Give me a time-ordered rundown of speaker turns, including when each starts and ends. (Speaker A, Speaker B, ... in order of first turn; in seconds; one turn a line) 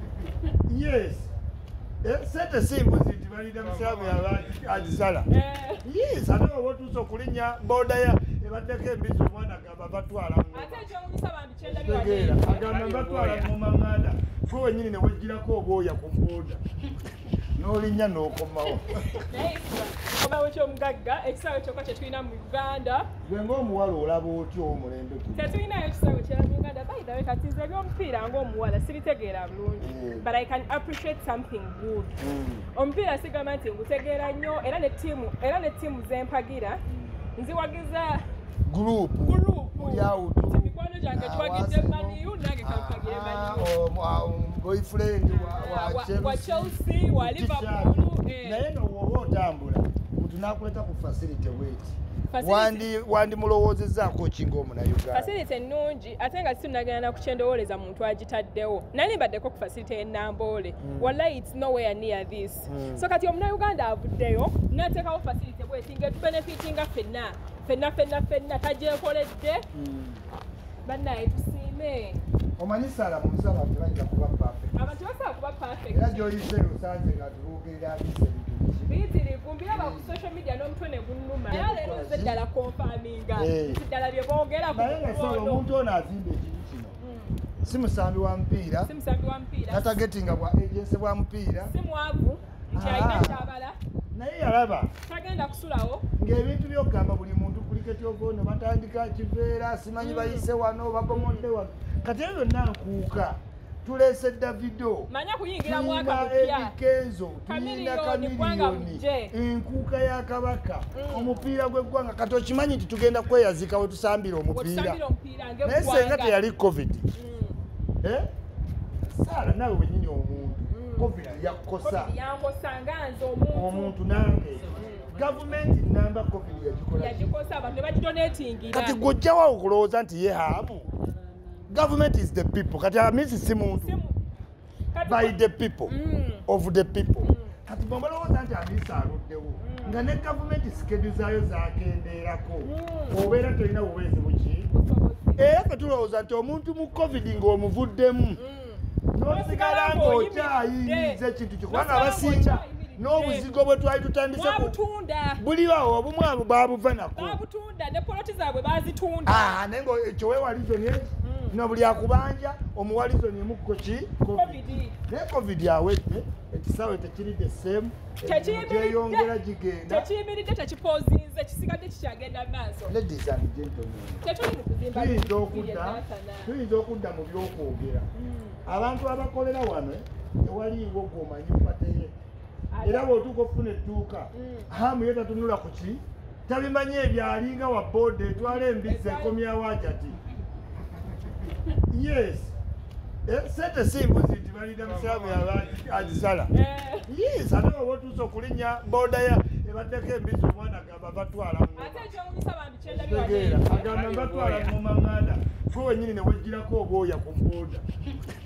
Speaker A: 0.7-1.3
Speaker A: 2.0-5.3
Speaker B: 5.3-5.9
Speaker A: 5.8-10.8
Speaker B: 10.5-13.5
Speaker A: 11.7-16.6
Speaker A: 17.6-19.1
Speaker B: 18.6-23.1
Speaker A: 23.2-25.5
Speaker B: 25.3-32.1
Speaker A: 29.8-30.3
Speaker A: 32.2-32.7
Speaker B: 32.7-36.8
Speaker B: 37.4-38.2
Speaker A: 38.7-55.3
Speaker B: 39.2-43.7
Speaker B: 45.3-48.7
Speaker B: 52.3-52.9
Speaker B: 55.1-69.7
Speaker A: 60.8-61.2
Speaker A: 62.7-63.0
Speaker A: 69.7-70.2
Speaker B: 70.8-72.2
Speaker A: 72.6-74.8
Speaker B: 74.8-76.3
Speaker A: 75.9-78.9
Speaker B: 78.9-85.7
Speaker A: 79.7-80.2
Speaker A: 81.5-82.4
Speaker A: 83.3-83.8
Speaker A: 84.7-87.0
Speaker B: 87.0-87.4
Speaker A: 87.6-88.9
Speaker B: 88.8-90.0
Speaker A: 89.7-91.7
Speaker B: 91.6-93.8
Speaker A: 92.7-93.5
Speaker A: 94.1-94.9
Speaker B: 95.1-96.0
Speaker A: 96.2-105.1
Speaker B: 100.0-100.5
Speaker B: 101.1-101.5
Speaker B: 105.1-106.8
Speaker A: 105.6-115.0
Speaker B: 107.5-109.3
Speaker B: 110.9-111.4
Speaker B: 114.5-116.5
Speaker A: 115.6-117.1
Speaker B: 117.2-117.6
Speaker A: 118.0-118.3
Speaker A: 119.1-122.1
Speaker B: 120.7-121.3
Speaker B: 121.8-124.0
Speaker A: 123.5-127.3
Speaker B: 124.7-125.1
Speaker B: 126.9-129.1
Speaker A: 128.7-130.9
Speaker A: 131.7-134.0
Speaker B: 133.7-134.2
Speaker B: 134.9-136.4
Speaker A: 135.1-135.9
Speaker A: 136.5-144.7
Speaker B: 137.2-137.6
Speaker B: 139.6-140.0
Speaker B: 142.6-143.4
Speaker B: 144.7-145.6
Speaker A: 145.4-148.4
Speaker B: 148.4-153.5
Speaker A: 149.1-154.8
Speaker B: 154.3-155.4
Speaker A: 155.4-157.4
Speaker B: 157.2-159.6
Speaker A: 159.3-170.1
Speaker B: 161.2-161.6
Speaker B: 164.3-165.0
Speaker B: 168.2-169.3
Speaker B: 169.9-172.9
Speaker A: 172.9-174.2
Speaker B: 174.2-176.5
Speaker A: 174.9-178.1
Speaker B: 178.1-178.6
Speaker A: 178.7-182.1
Speaker B: 182.7-183.1
Speaker A: 182.8-190.2
Speaker B: 184.3-184.7
Speaker B: 188.4-189.4
Speaker A: 191.9-192.5
Speaker A: 193.3-196.5
Speaker B: 196.5-197.1
Speaker A: 197.1-202.1
Speaker B: 201.8-204.8
Speaker A: 202.9-207.8